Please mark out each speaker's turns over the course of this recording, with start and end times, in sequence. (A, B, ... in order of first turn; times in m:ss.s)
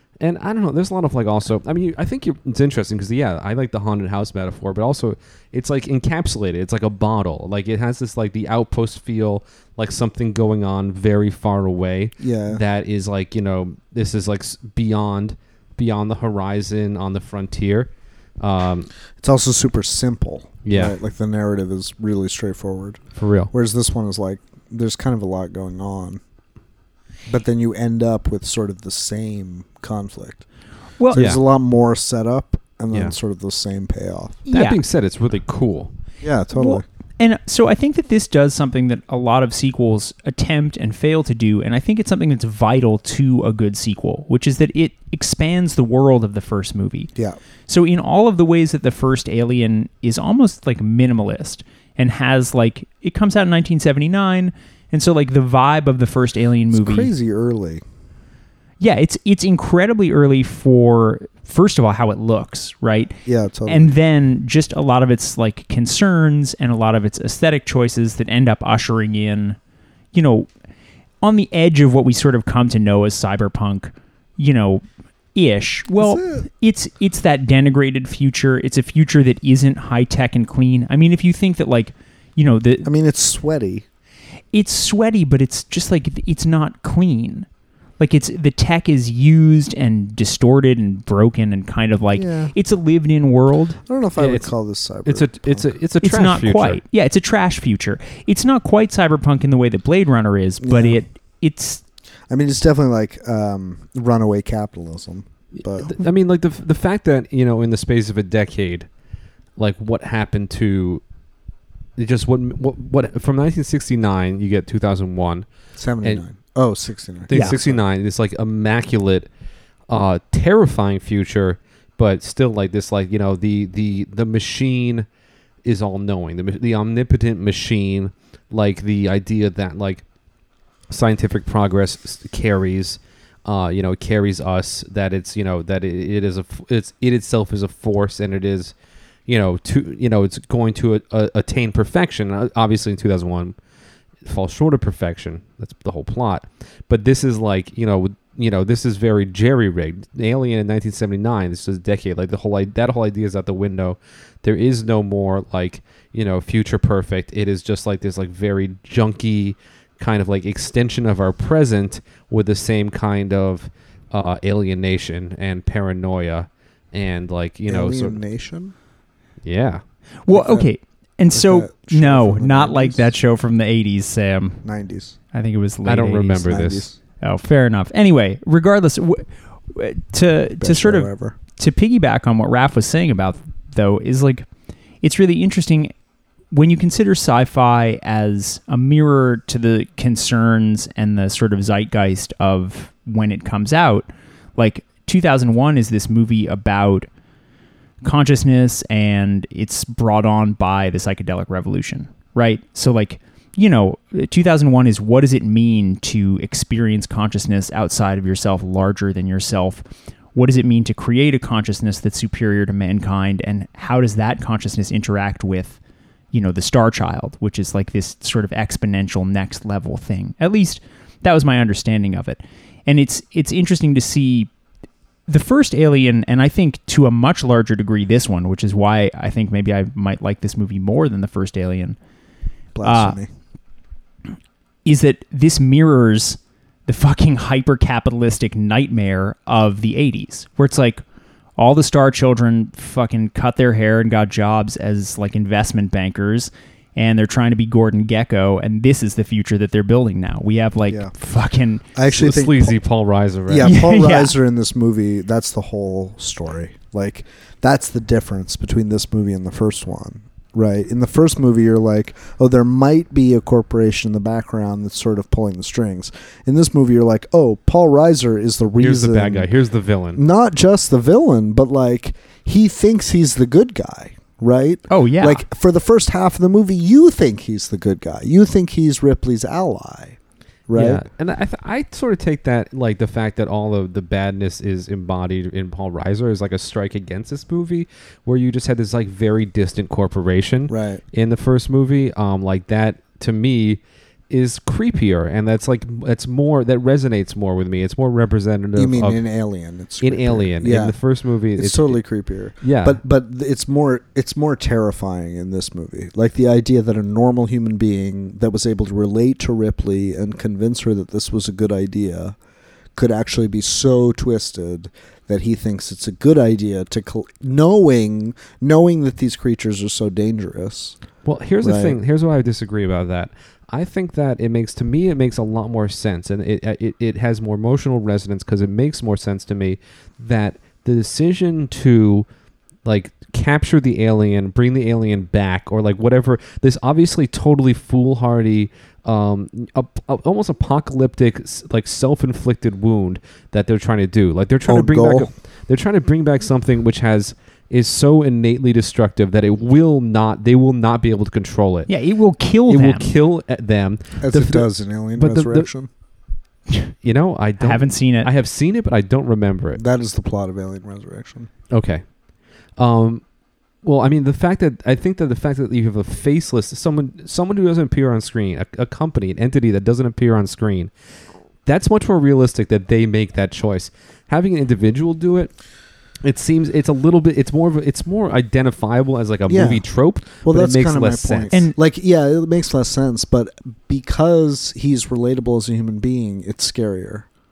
0:00.2-0:18.9 A
0:12.2-0:12.6 B
0:19.2-0:26.2 B
0:20.6-0:21.0 A
0:23.2-0:23.5 A
0:27.3-0:30.4 B
0:31.0-0:31.2 C
0:31.1-0:34.4 B
0:34.5-0:34.8 C
0:34.5-0:35.9 A
0:36.2-0:36.8 B
0:36.5-0:47.1 C
0:47.7-0:57.1 C
0:56.7-0:57.8 B
0:58.8-1:03.1 C
1:03.2-1:04.0 B
1:03.7-1:09.6 C
1:10.1-1:10.5 C
1:11.2-1:14.8 C
1:15.3-1:22.9 C
1:16.0-1:16.5 B
1:22.8-1:23.8 B
1:24.5-1:27.5 C
1:28.0-1:33.8 C
1:32.2-1:32.5 B
1:33.9-1:35.7 B
1:34.2-1:34.5 A
1:35.0-1:36.8 A
1:36.0-1:41.8 C
1:40.6-1:41.0 B
1:42.3-1:45.9 B
1:45.7-1:48.9 A
1:49.6-1:51.0 A
1:52.0-1:55.5 A
1:55.8-1:57.8 B
1:57.3-1:59.3 A
1:57.3-1:57.6 C
1:59.9-2:05.1 A
2:05.6-2:10.0 A
2:10.9-2:18.7 A
2:19.3-2:23.5 A
2:24.2-2:48.2 A
2:47.7-2:48.7 B
2:49.4-2:49.8 A
2:50.3-2:54.6 C
2:50.3-2:50.6 B
2:51.3-2:53.1 B
2:54.6-2:55.2 B
2:55.3-2:56.6 C
2:55.8-2:56.9 A
2:56.4-2:57.0 B
2:57.2-3:04.4 C
3:00.6-3:01.4 B
3:05.0-3:05.9 C
3:06.5-3:17.1 C
3:18.0-3:29.8 C
3:30.3-3:35.8 C
3:36.3-3:44.5 C
3:45.3-3:52.0 C
3:52.7-3:53.3 B
3:52.8-3:53.2 C
3:54.8-4:01.0 C
4:01.6-4:11.8 C
4:11.9-4:12.8 B
4:12.1-4:13.7 A
4:13.5-4:29.5 B
4:13.6-4:14.4 C
4:28.8-4:30.2 A
4:30.1-4:41.0 B
4:34.9-4:35.4 C
4:40.7-4:59.2 A
4:50.7-4:51.0 B
4:58.7-5:01.0 B
5:00.0-5:02.0 A
5:01.6-5:12.4 B
5:02.6-5:03.0 A
5:13.0-5:21.0 B
5:21.2-5:32.3 A
5:21.6-5:22.0 B
5:32.8-5:51.9 A
5:44.7-5:45.3 B
5:51.9-5:53.1 C
5:52.7-5:55.7 A
5:54.2-5:55.9 B
5:57.0-5:59.8 A
5:57.6-5:58.3 C
5:59.8-6:01.5 B
6:01.7-6:02.0 A
6:02.8-6:03.2 A
6:03.8-6:10.9 A
6:11.6-6:15.5 A
6:16.2-6:21.5 A
6:19.5-6:19.8 B
6:20.4-6:27.2 B